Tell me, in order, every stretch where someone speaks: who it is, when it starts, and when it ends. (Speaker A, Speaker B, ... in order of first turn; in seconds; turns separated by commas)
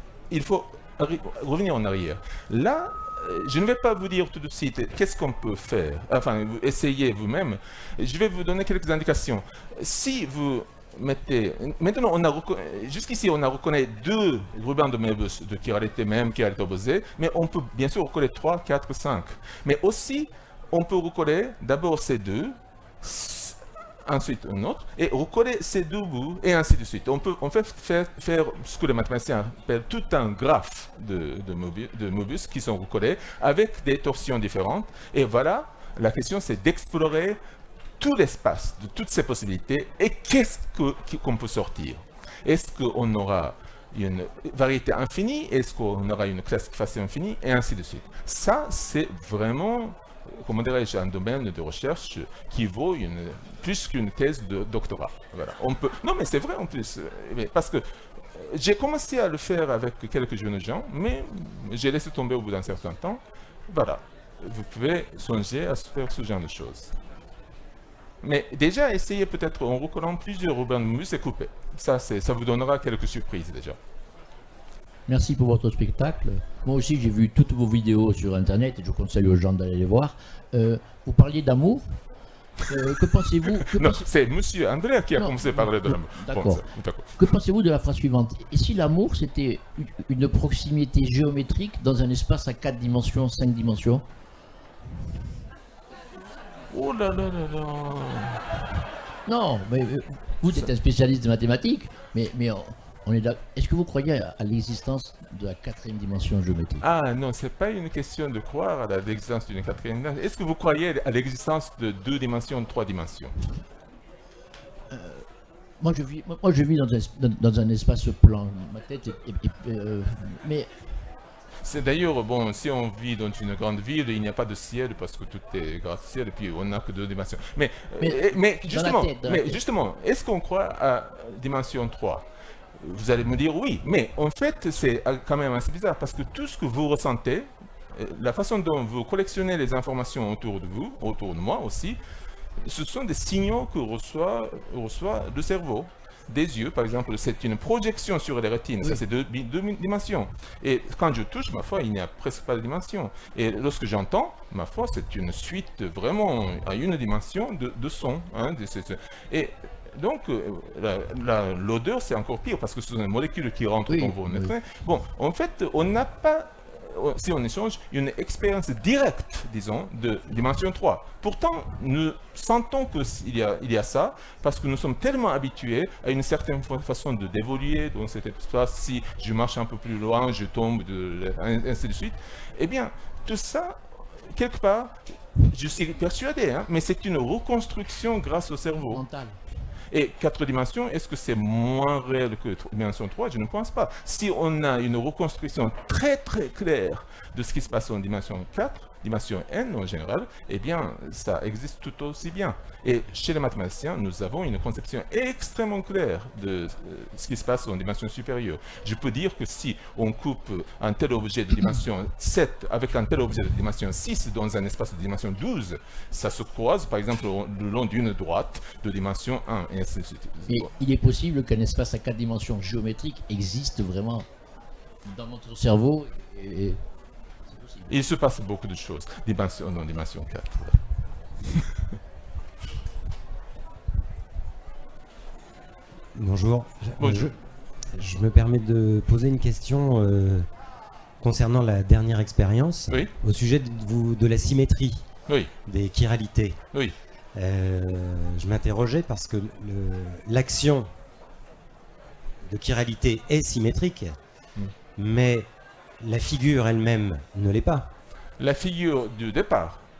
Speaker A: 0.3-37.4, Speaker A: 38.0-66.9, Speaker A: 68.2-73.8, Speaker B: 75.1-82.0, Speaker B: 82.7-84.0, Speaker A: 83.7-87.1, Speaker B: 85.1-94.0, Speaker A: 96.7-98.4, Speaker B: 99.2-106.8, Speaker A: 106.8-113.3, Speaker B: 114.9-115.2, Speaker B: 115.8-120.7, Speaker A: 121.6-132.2, Speaker B: 128.0-129.6, Speaker A: 132.8-142.0, Speaker A: 142.6-183.8, Speaker B: 163.9-164.5, Speaker A: 184.3-184.9, Speaker A: 185.5-189.0, Speaker B: 188.8-189.4, Speaker A: 189.9-220.7, Speaker B: 220.5-224.3, Speaker B: 225.0-226.8, Speaker B: 227.5-227.9, Speaker A: 227.9-230.8, Speaker C: 236.1-237.3, Speaker A: 237.0-237.3, Speaker C: 237.9-240.5, Speaker C: 241.2-245.1, Speaker C: 245.7-246.6, Speaker C: 247.3-250.9, Speaker C: 252.4-254.2, Speaker C: 254.9-255.5, Speaker C: 256.0-257.9, Speaker A: 258.4-259.8